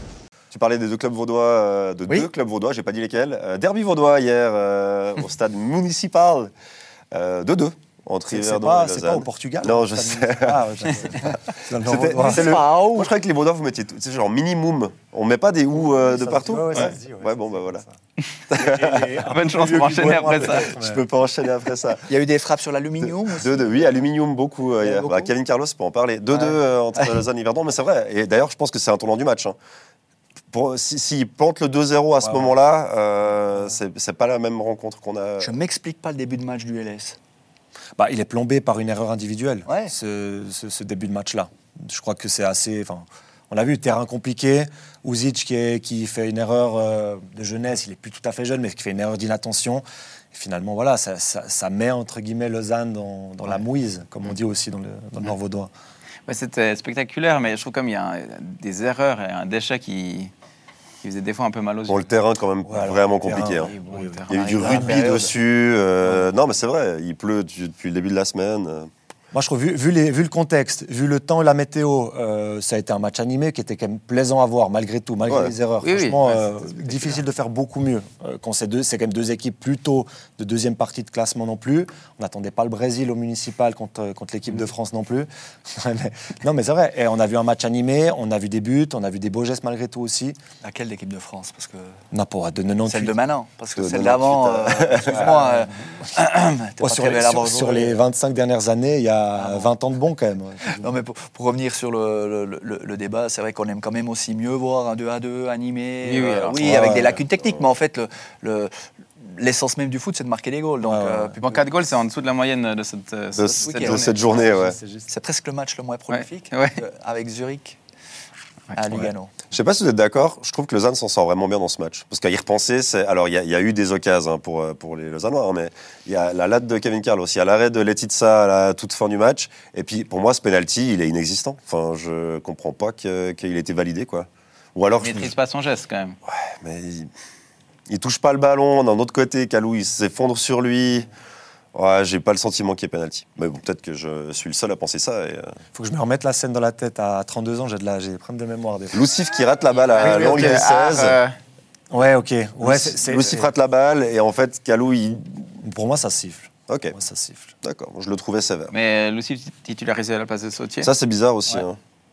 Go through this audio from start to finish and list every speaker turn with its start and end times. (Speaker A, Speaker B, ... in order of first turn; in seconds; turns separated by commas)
Speaker A: 0.5-6.5, Speaker A: 7.1-10.6, Speaker B: 8.3-12.6, Speaker A: 11.9-17.8, Speaker C: 12.2-13.1, Speaker B: 15.8-17.9, Speaker A: 18.5-19.0, Speaker B: 18.5-21.0, Speaker D: 19.2-20.7, Speaker A: 20.6-22.0, Speaker C: 22.1-23.7, Speaker A: 23.0-29.6, Speaker C: 25.0-25.3, Speaker C: 26.3-27.0, Speaker A: 30.5-35.5, Speaker B: 32.2-32.5, Speaker C: 35.4-37.2, Speaker B: 38.0-55.7, Speaker C: 39.6-39.9, Speaker D: 56.3-60.3, Speaker D: 61.0-62.0, Speaker A: 61.9-63.7, Speaker B: 62.6-65.3, Speaker D: 63.4-65.2, Speaker A: 64.3-68.9, Speaker B: 66.0-66.3, Speaker B: 69.3-90.4, Speaker D: 75.8-77.2, Speaker C: 90.6-92.0, Speaker B: 92.1-93.1, Speaker C: 92.9-98.0, Speaker A: 93.8-95.3, Speaker B: 95.1-95.7, Speaker B: 96.8-100.9, Speaker C: 99.4-99.7, Speaker C: 100.7-111.7, Speaker D: 106.0-106.9, Speaker B: 106.6-107.2, Speaker B: 110.8-111.3, Speaker D: 111.4-114.4, Speaker A: 113.3-114.8, Speaker C: 113.6-114.2, Speaker B: 114.3-115.1, Speaker C: 115.1-117.8, Speaker D: 116.1-116.8, Speaker C: 118.7-119.3, Speaker A: 119.5-135.3, Speaker D: 135.0-136.2, Speaker A: 136.3-137.1, Speaker A: 137.9-141.1, Speaker A: 141.7-145.5, Speaker B: 145.7-149.0, Speaker A: 148.9-151.2, Speaker D: 149.8-151.3, Speaker B: 151.9-153.5, Speaker A: 152.6-155.5, Speaker B: 155.6-157.5, Speaker A: 156.7-156.9, Speaker A: 157.6-158.7, Speaker D: 158.7-160.9, Speaker A: 160.8-161.8